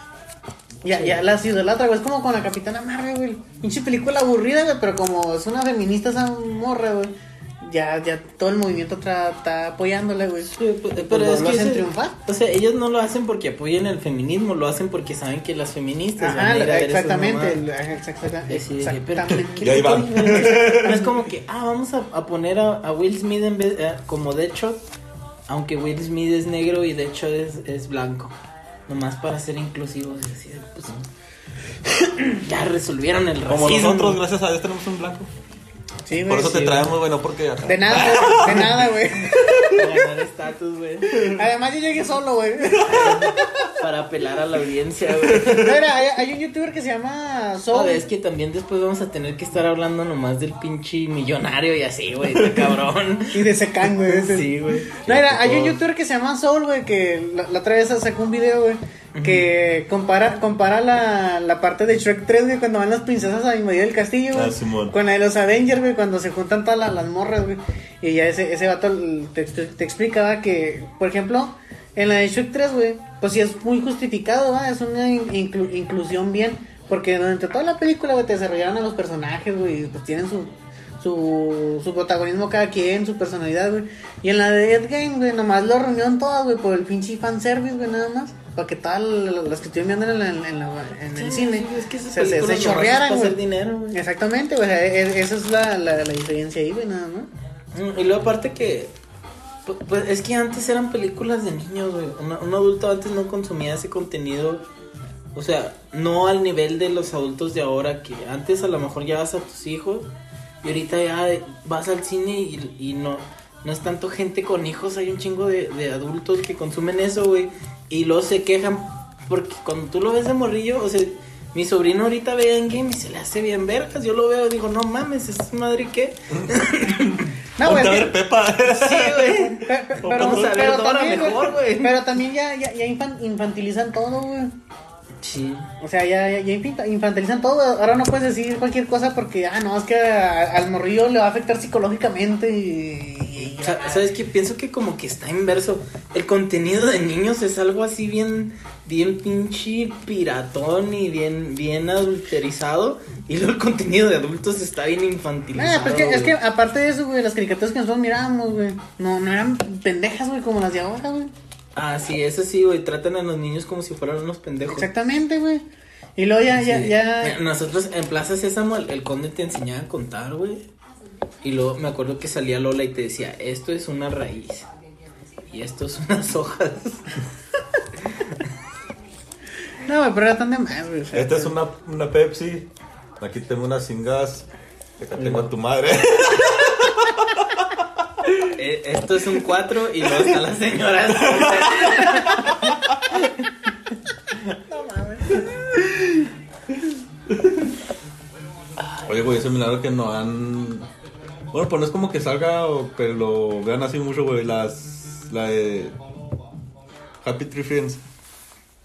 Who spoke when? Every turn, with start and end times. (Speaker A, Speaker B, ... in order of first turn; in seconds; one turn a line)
Speaker A: 0.8-10.5
Speaker B: 0.9-1.1
Speaker B: 10.4-17.6
Speaker A: 11.1-12.2
Speaker A: 16.2-21.2
Speaker B: 18.5-24.8
Speaker C: 19.6-21.0
Speaker B: 25.5-28.3
Speaker B: 28.9-31.1
Speaker B: 32.2-34.2
Speaker C: 33.5-35.3
Speaker A: 36.0-36.9
Speaker C: 36.2-39.7
Speaker A: 37.6-39.9
Speaker B: 39.7-41.2
Speaker A: 41.1-43.5
Speaker C: 42.7-43.5
Speaker B: 42.8-45.9
Speaker C: 45.1-45.7
Speaker A: 45.5-48.0
Speaker B: 47.7-55.0
Speaker C: 52.3-52.7
Speaker A: 53.3-93.4
Speaker C: 55.0-55.7
Speaker B: 59.1-59.5
Speaker C: 64.3-64.9
Speaker B: 91.1-94.0
Speaker A: 93.9-97.3
Speaker B: 97.7-98.9
Speaker B: 99.7-104.6
Speaker B: 105.3-110.1
Speaker B: 110.6-127.3
Speaker C: 126.9-129.3
Speaker A: 127.6-128.1
Speaker B: 128.6-132.1
Speaker A: 129.4-134.5
Speaker C: 130.0-130.5
Speaker B: 135.2-135.7
Speaker A: 135.8-144.1
Speaker B: 143.6-156.3
Speaker A: 155.5-161.3
Speaker B: 161.7-164.9
Speaker A: 164.7-165.6
Speaker A: 166.2-167.4
Speaker B: 166.5-170.7
Speaker B: 171.4-174.7
Speaker B: 175.5-177.2
Speaker A: 179.8-181.5
Speaker C: 181.1-182.7
Speaker C: 183.2-184.5
Speaker C: 185.0-187.6
Speaker B: 185.2-185.5
Speaker B: 188.5-193.3
Speaker C: 191.2-192.7
Speaker A: 194.7-195.7
Speaker C: 199.0-200.9
Speaker C: 201.5-206.0
Speaker C: 207.2-208.0